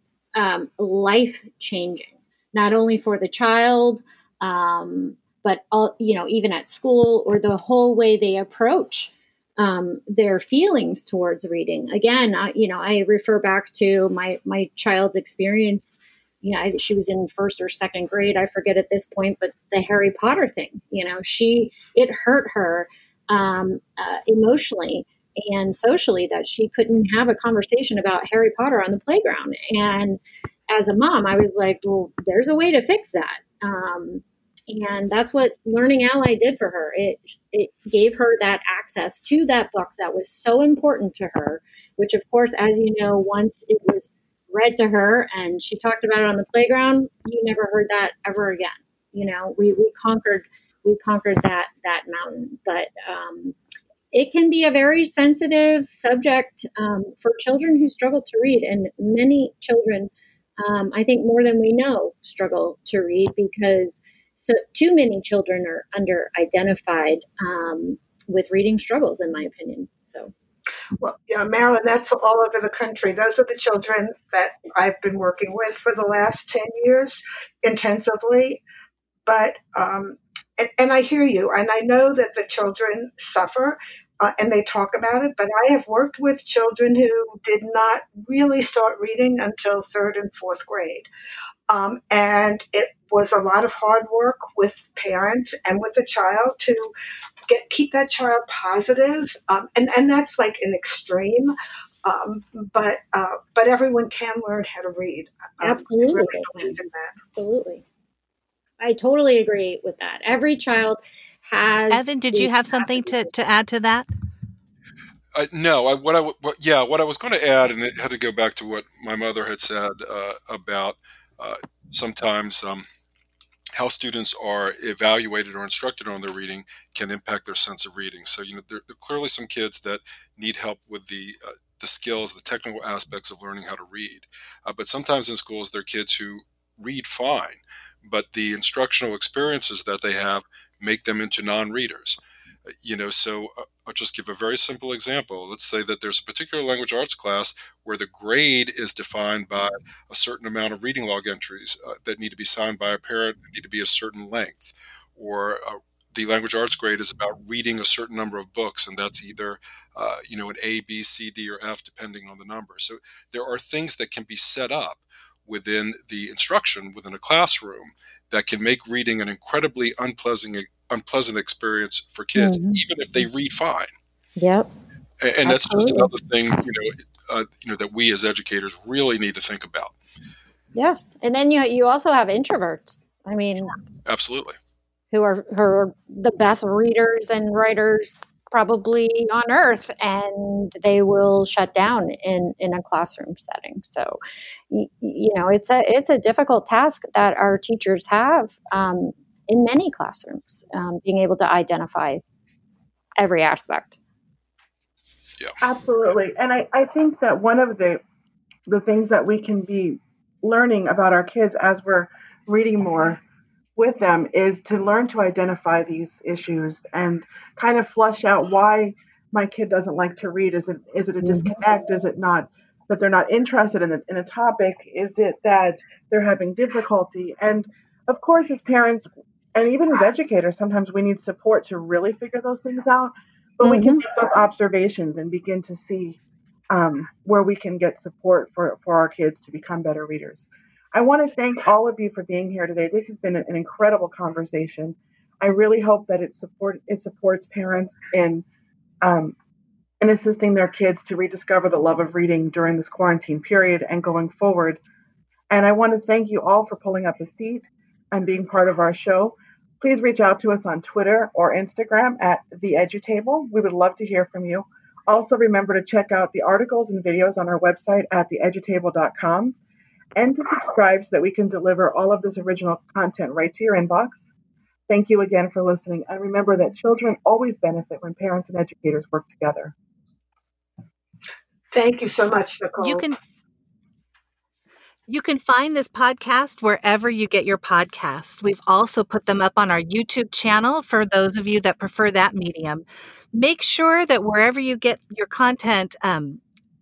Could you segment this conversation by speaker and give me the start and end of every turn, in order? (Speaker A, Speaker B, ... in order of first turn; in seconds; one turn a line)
Speaker A: 0.4-30.2
Speaker A: 30.7-53.6
Speaker A: 54.1-60.1
Speaker A: 60.6-70.3
Speaker B: 71.0-78.6
Speaker B: 79.3-91.1
Speaker B: 91.7-96.9
Speaker B: 97.5-101.5
Speaker B: 102.0-107.2
Speaker A: 105.6-106.8
Speaker A: 107.3-107.8
Speaker A: 108.8-112.5
Speaker C: 111.9-114.1
Speaker D: 115.3-122.8
Speaker D: 123.8-142.2
Speaker D: 142.8-173.9
Speaker A: 172.4-172.8
Speaker A: 174.4-174.7
Speaker D: 175.2-179.9
Speaker A: 175.4-176.1
Speaker A: 180.8-183.7
Speaker D: 184.1-184.6
Speaker A: 185.1-202.2
Speaker A: 203.2-204.0
Speaker E: 205.6-208.0
Speaker E: 208.7-213.2
Speaker E: 213.8-236.2
Speaker A: 233.6-234.0
Speaker E: 236.7-248.4
Speaker E: 249.0-249.3
Speaker E: 250.0-254.8
Speaker E: 255.5-269.6
Speaker E: 270.2-274.3
Speaker E: 274.9-279.7
Speaker B: 281.7-283.1
Speaker C: 282.8-283.2
Speaker C: 285.1-296.4